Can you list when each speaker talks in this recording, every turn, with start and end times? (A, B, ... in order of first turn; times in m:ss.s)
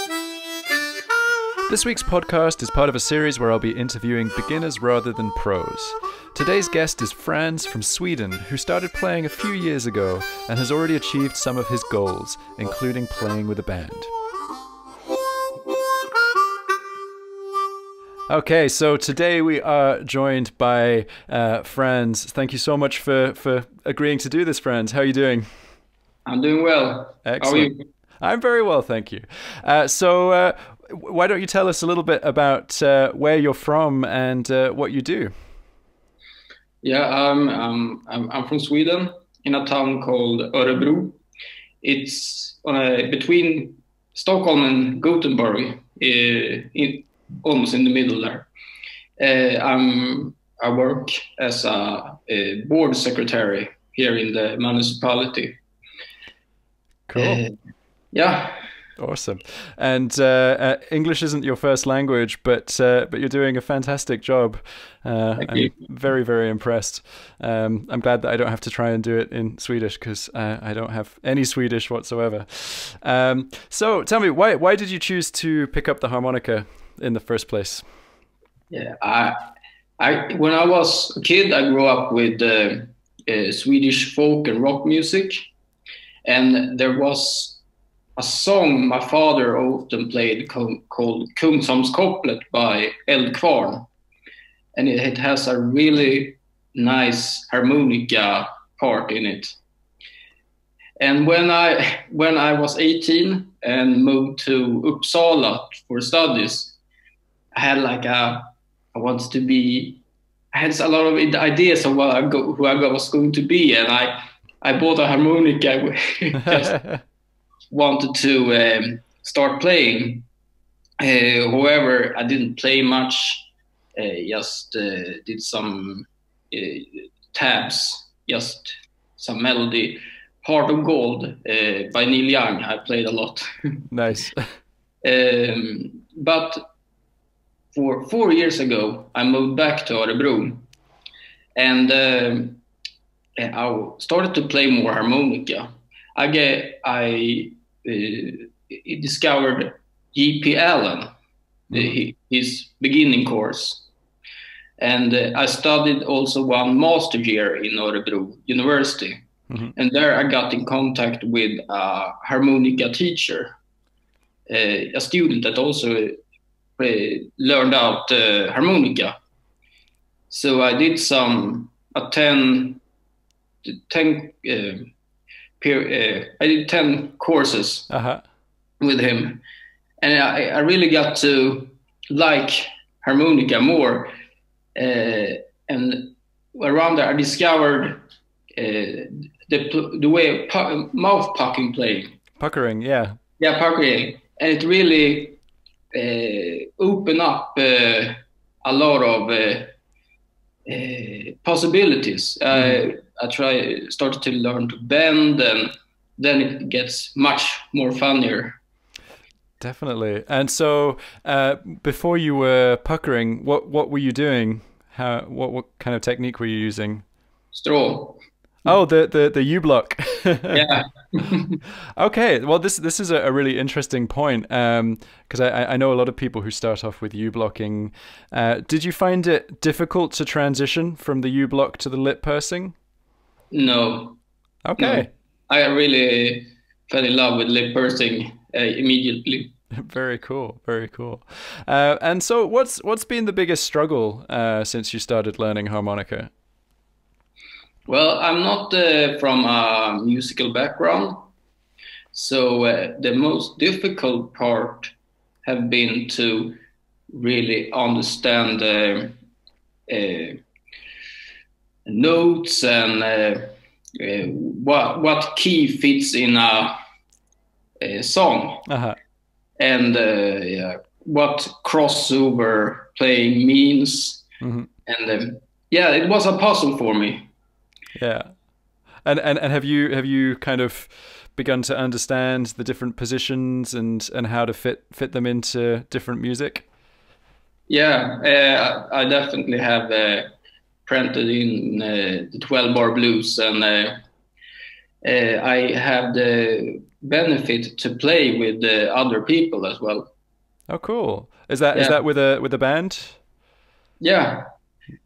0:01.7-0:14.1 A
0:18.3-0:25.5 A
0:26.3-0:27.8 B
0:27.2-0:35.3 A
0:36.8-0:41.2 B
0:41.8-0:48.5 B
0:49.2-0:55.6 B
0:57.1-0:57.4 A
0:57.2-0:57.5 B
0:58.1-0:58.6 B
0:59.0-1:17.8 A
1:05.4-1:05.7 B
1:18.7-1:19.4 B
1:20.0-1:25.4 B
1:26.2-1:27.6 B
1:28.2-1:33.9 B
1:34.8-1:39.6 B
1:41.0-1:46.8 B
1:47.6-1:50.0 B
1:50.5-1:56.7 B
1:57.7-2:00.3 B
2:01.0-2:13.8 B
2:13.9-2:14.5 A
2:15.0-2:16.6 B
2:17.7-2:20.6 B
2:21.6-2:22.6 B
2:23.4-2:31.1 B
2:31.7-2:33.9 B
2:34.8-2:39.2 B
2:39.8-2:43.5 B
2:44.5-2:46.2 B
2:46.8-2:49.1 B
2:50.3-2:52.8 B
2:53.6-2:54.9 B
2:55.6-2:57.9 B
2:57.9-2:58.2 A
2:58.8-2:59.4 B
3:00.0-3:04.1 B
3:04.8-3:08.0 B
3:08.6-3:12.1 B
3:12.4-3:13.2 A
3:13.4-3:15.4 B
3:15.9-3:19.7 B
3:20.7-3:28.6 B
3:22.5-3:22.8 A
3:29.6-3:37.0 A
3:37.5-3:38.2 B
3:38.6-3:40.6 A
3:40.5-3:41.6 B
3:42.0-3:52.8 A
3:53.5-3:54.2 B
3:54.6-3:55.1 A
3:54.8-3:59.5 B
3:59.8-4:06.3 A
4:07.9-4:11.3 B
4:12.1-4:14.9 B
4:15.4-4:16.6 B
4:17.1-4:19.2 B
4:19.9-4:20.4 B
4:21.9-4:26.8 B
4:27.8-4:28.7 B
4:28.7-4:29.0 A
4:29.6-4:34.2 B
4:34.4-4:34.7 A
4:34.9-4:37.3 B
4:38.0-4:38.4 A
4:39.0-4:46.7 A
4:47.7-4:50.3 B
4:50.9-4:54.0 B
4:55.0-5:00.1 B
5:00.7-5:03.2 A
5:04.0-5:04.4 B